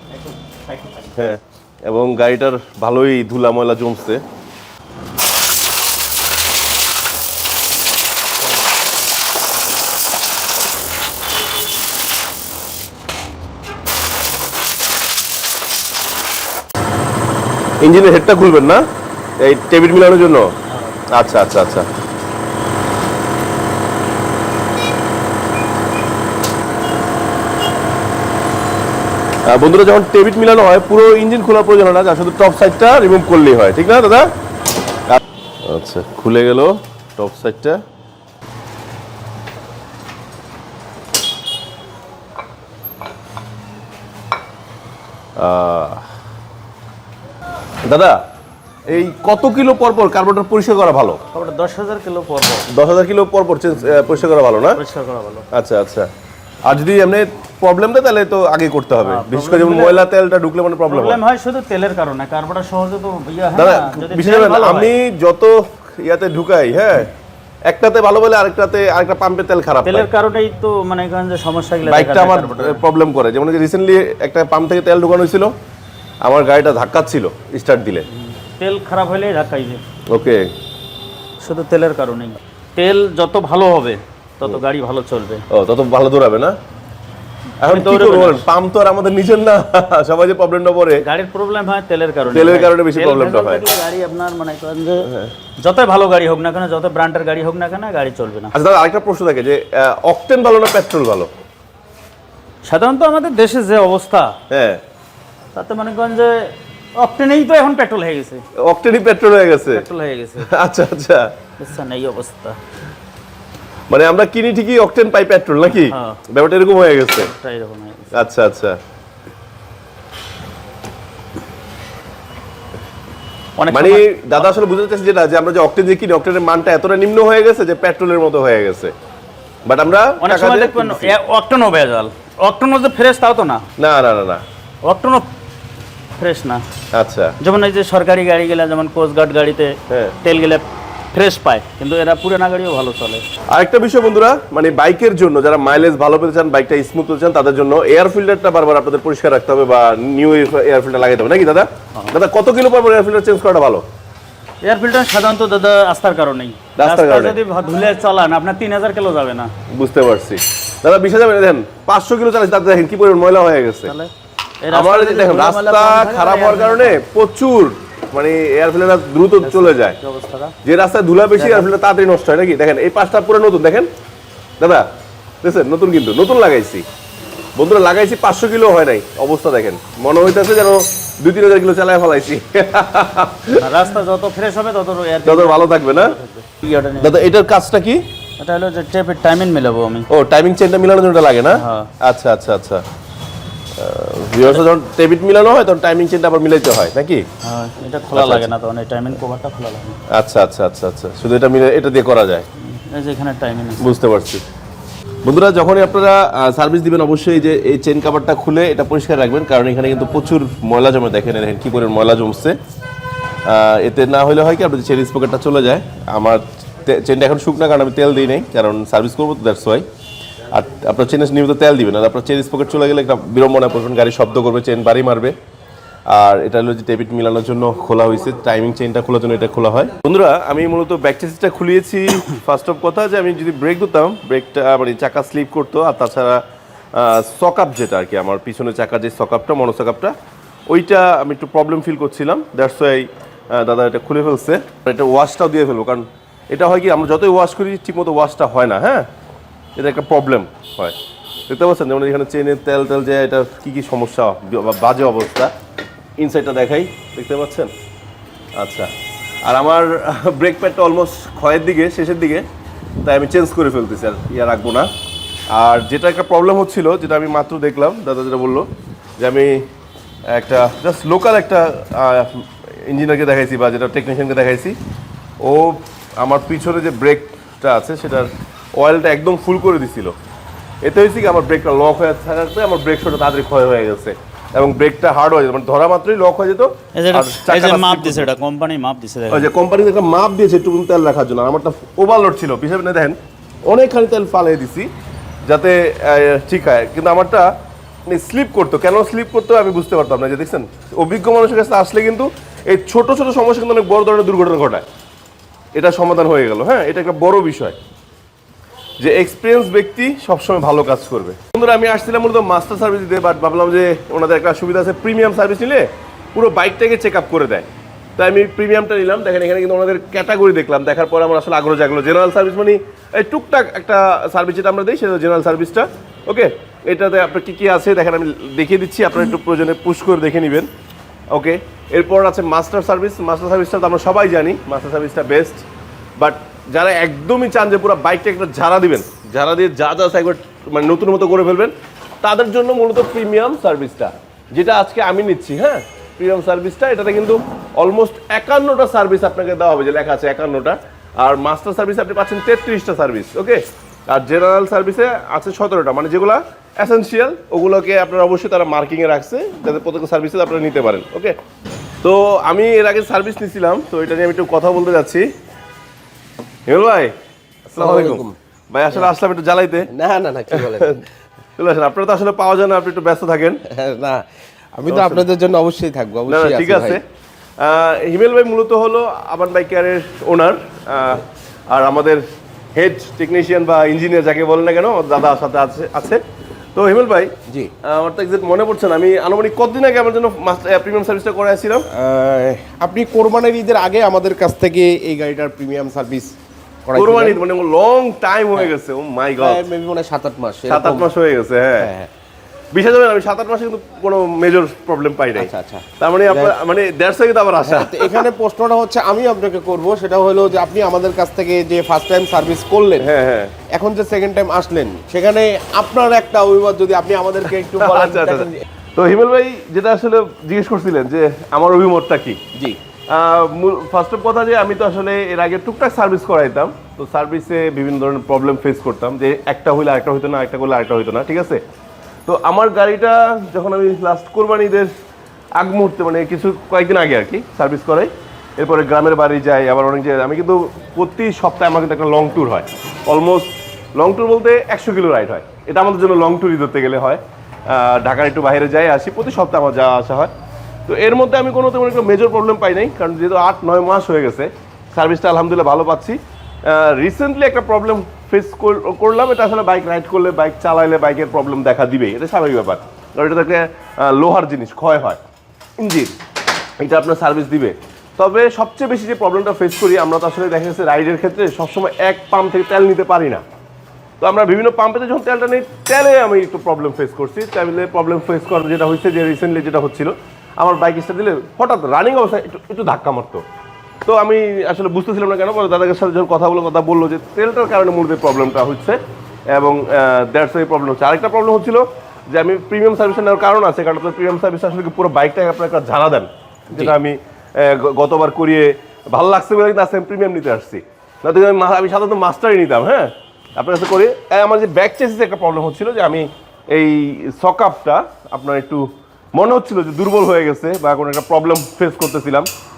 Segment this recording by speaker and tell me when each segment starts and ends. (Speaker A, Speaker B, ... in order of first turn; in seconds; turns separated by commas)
Speaker A: 0.1-1.2, Speaker B: 1.1-4.2, Speaker B: 17.8-18.8, Speaker B: 19.4-20.5, Speaker A: 20.7-21.0, Speaker B: 21.1-21.9, Speaker B: 29.5-34.3, Speaker B: 35.1-37.8, Speaker B: 45.4-46.1, Speaker B: 47.9-48.2, Speaker B: 48.9-51.2, Speaker A: 51.3-52.7, Speaker B: 52.7-54.8, Speaker A: 53.8-54.2, Speaker A: 54.8-55.5, Speaker B: 55.5-56.1, Speaker B: 56.6-61.2, Speaker A: 59.0-60.0, Speaker A: 60.9-65.0, Speaker B: 63.6-67.1, Speaker B: 67.7-70.1, Speaker A: 69.9-72.8, Speaker B: 71.8-75.5, Speaker B: 76.2-78.1, Speaker A: 78.1-79.8, Speaker B: 80.1-80.5, Speaker A: 81.4-85.5, Speaker B: 85.5-86.6, Speaker B: 87.6-91.0, Speaker A: 87.6-88.5, Speaker A: 91.0-98.5, Speaker B: 92.3-93.7, Speaker B: 95.0-95.3, Speaker B: 98.5-101.3, Speaker A: 102.7-104.4, Speaker B: 104.5-104.8, Speaker A: 105.5-108.4, Speaker B: 108.6-109.8, Speaker A: 109.7-110.5, Speaker B: 110.4-111.3, Speaker A: 111.6-112.6, Speaker B: 113.9-117.3, Speaker A: 115.7-116.2, Speaker A: 117.2-118.3, Speaker B: 118.1-118.8, Speaker A: 123.6-124.1, Speaker B: 123.7-128.9, Speaker B: 129.7-131.1, Speaker A: 130.2-133.7, Speaker B: 133.8-134.4, Speaker A: 134.8-135.3, Speaker A: 136.2-136.6, Speaker B: 136.9-137.3, Speaker A: 137.4-143.3, Speaker B: 139.9-140.2, Speaker B: 143.5-153.9, Speaker A: 154.6-159.5, Speaker B: 156.8-157.4, Speaker B: 159.7-163.9, Speaker A: 163.9-164.1, Speaker A: 164.6-167.0, Speaker B: 164.7-170.0, Speaker A: 169.4-170.5, Speaker B: 170.6-173.9, Speaker A: 171.4-171.7, Speaker B: 174.6-174.9, Speaker B: 175.4-176.9, Speaker B: 177.6-183.7, Speaker A: 183.5-187.2, Speaker B: 185.2-186.2, Speaker B: 187.0-188.1, Speaker A: 188.4-190.1, Speaker B: 190.1-192.8, Speaker A: 191.6-191.9, Speaker B: 193.8-197.3, Speaker A: 197.4-200.0, Speaker B: 198.1-198.5, Speaker B: 200.1-202.5, Speaker A: 202.6-203.8, Speaker B: 203.8-204.4, Speaker B: 205.2-212.6, Speaker B: 213.5-219.8, Speaker B: 220.5-225.3, Speaker B: 226.1-236.4, Speaker B: 236.9-240.2, Speaker B: 240.7-249.1, Speaker B: 249.8-250.9, Speaker B: 251.5-255.5, Speaker B: 256.2-257.7, Speaker B: 258.6-258.9, Speaker B: 259.4-262.5, Speaker B: 263.0-264.9, Speaker B: 265.5-268.7, Speaker B: 269.2-269.7, Speaker B: 270.3-274.8, Speaker B: 275.4-280.2, Speaker B: 280.8-288.3, Speaker A: 286.9-289.5, Speaker B: 289.3-294.9, Speaker B: 295.4-297.5, Speaker B: 298.1-304.9, Speaker B: 305.7-307.8, Speaker B: 309.0-330.7, Speaker B: 331.3-335.7, Speaker B: 336.2-361.4, Speaker B: 362.0-365.3, Speaker B: 366.7-367.1, Speaker C: 367.7-368.4, Speaker B: 367.8-369.9, Speaker C: 369.9-371.0, Speaker B: 370.5-371.0, Speaker B: 371.6-373.6, Speaker C: 373.7-374.2, Speaker C: 374.8-377.0, Speaker B: 374.9-375.2, Speaker B: 376.3-377.0, Speaker B: 377.6-382.2, Speaker B: 382.8-386.2, Speaker B: 386.8-391.9, Speaker C: 387.5-387.7, Speaker C: 391.9-397.4, Speaker B: 396.9-399.6, Speaker C: 399.4-401.1, Speaker B: 400.7-401.9, Speaker C: 401.8-402.1, Speaker B: 402.7-408.3, Speaker C: 405.4-406.6, Speaker C: 407.6-413.1, Speaker B: 413.0-413.6, Speaker C: 413.7-418.6, Speaker B: 417.7-422.4, Speaker B: 423.1-431.6, Speaker B: 432.3-434.9, Speaker B: 435.6-450.3, Speaker B: 450.9-465.2, Speaker B: 465.8-466.2, Speaker B: 466.8-473.4, Speaker B: 474.2-483.4, Speaker B: 484.1-489.0, Speaker B: 489.5-512.5